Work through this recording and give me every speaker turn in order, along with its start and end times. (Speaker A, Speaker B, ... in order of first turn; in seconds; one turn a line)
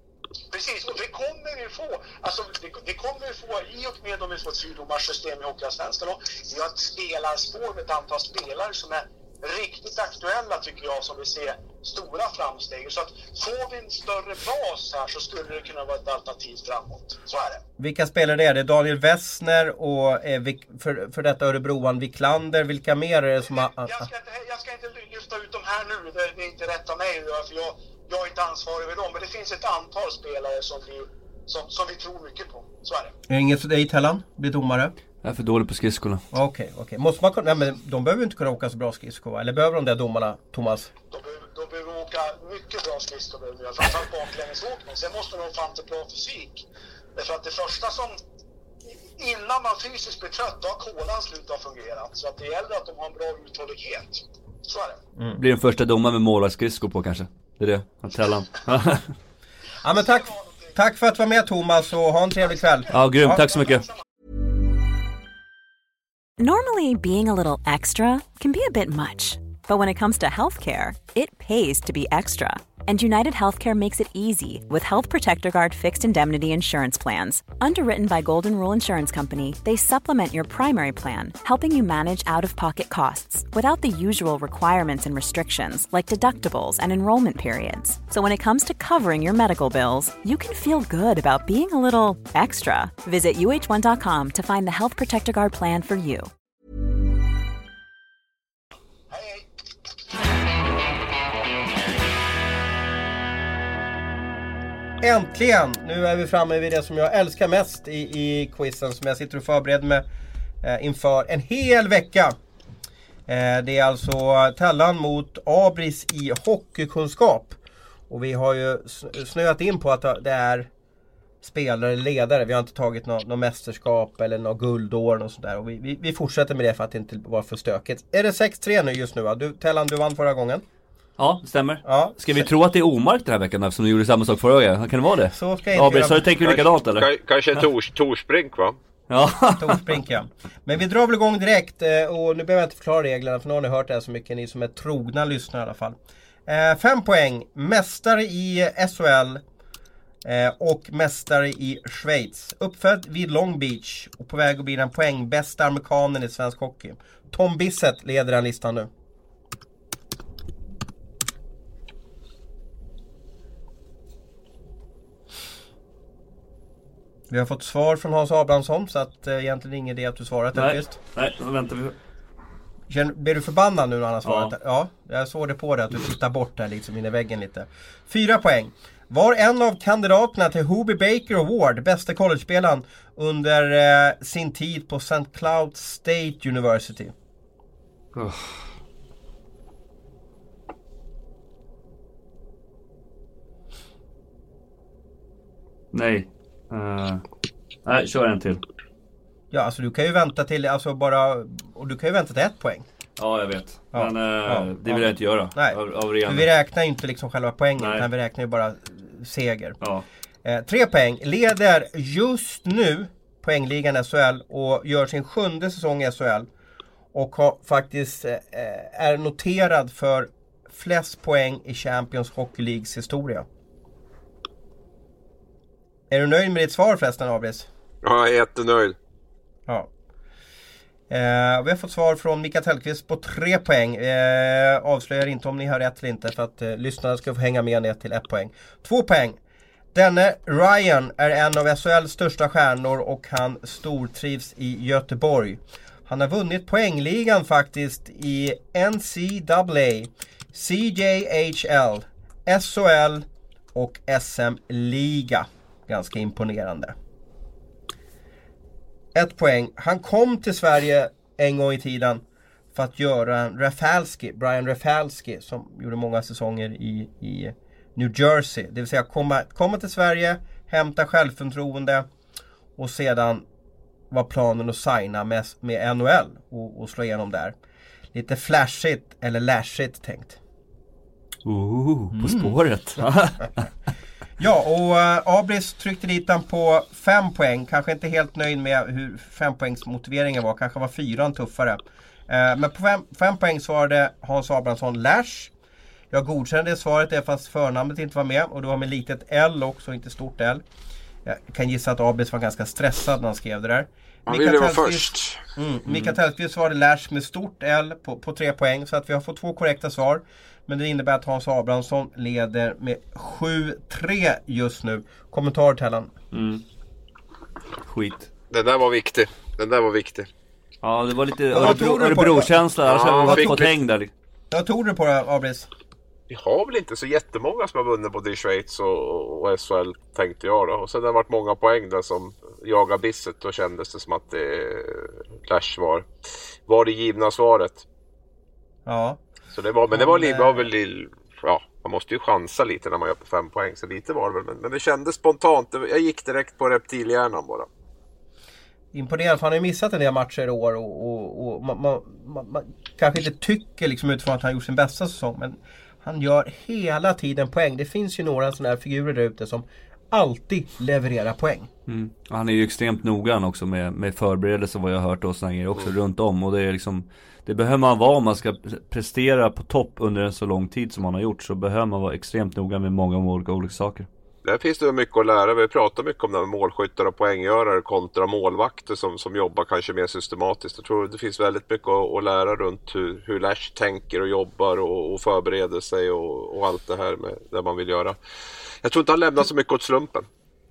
Speaker A: 0.5-17.6
Speaker B: 17.8-24.1
Speaker A: 23.5-33.1
Speaker B: 33.3-34.9
Speaker C: 35.2-36.2
Speaker B: 36.3-40.9
Speaker A: 41.1-48.2
Speaker A: 48.9-55.0
Speaker B: 55.2-55.4
Speaker C: 55.4-59.1
Speaker B: 59.8-63.5
Speaker A: 60.2-60.8
Speaker C: 62.9-63.9
Speaker D: 66.4-96.3
Speaker A: 99.1-99.4
Speaker B: 105.0-110.0
Speaker B: 110.6-112.3
Speaker B: 113.3-117.5
Speaker B: 118.1-120.7
Speaker B: 121.4-130.6
Speaker C: 131.2-137.6
Speaker B: 131.8-132.4
Speaker B: 135.3-136.3
Speaker E: 136.4-138.8
Speaker C: 139.1-139.9
Speaker B: 139.6-149.4
Speaker B: 150.2-158.9
Speaker B: 167.3-170.9
Speaker C: 170.5-171.9
Speaker B: 172.9-187.1
Speaker C: 174.2-174.5
Speaker C: 188.1-188.6
Speaker C: 195.9-197.2
Speaker C: 197.8-198.6
Speaker B: 199.5-202.8
Speaker C: 203.2-206.5
Speaker B: 203.9-209.8
Speaker C: 207.8-208.1
Speaker B: 210.4-216.5
Speaker B: 217.1-223.4
Speaker B: 226.1-227.7
Speaker E: 228.0-228.9
Speaker B: 231.1-239.4
Speaker B: 239.9-256.9
Speaker B: 259.1-272.1
Speaker B: 272.8-273.4
Speaker B: 274.1-277.5
Speaker B: 278.1-280.4
Speaker C: 281.4-283.6
Speaker B: 282.1-282.5
Speaker B: 284.4-295.5
Speaker B: 296.1-300.6
Speaker B: 301.2-316.1
Speaker E: 304.3-305.4
Speaker C: 305.9-306.1
Speaker C: 316.3-316.6
Speaker C: 317.8-318.3
Speaker E: 318.5-320.3
Speaker C: 320.8-324.1
Speaker B: 321.5-322.6
Speaker E: 322.8-323.7
Speaker B: 323.2-323.7
Speaker B: 324.5-325.7
Speaker E: 326.3-336.1
Speaker E: 336.7-337.8
Speaker B: 338.9-339.2
Speaker E: 339.5-347.7
Speaker B: 339.9-340.7
Speaker B: 348.9-361.7
Speaker C: 361.9-374.1
Speaker E: 374.4-388.1
Speaker E: 388.8-390.3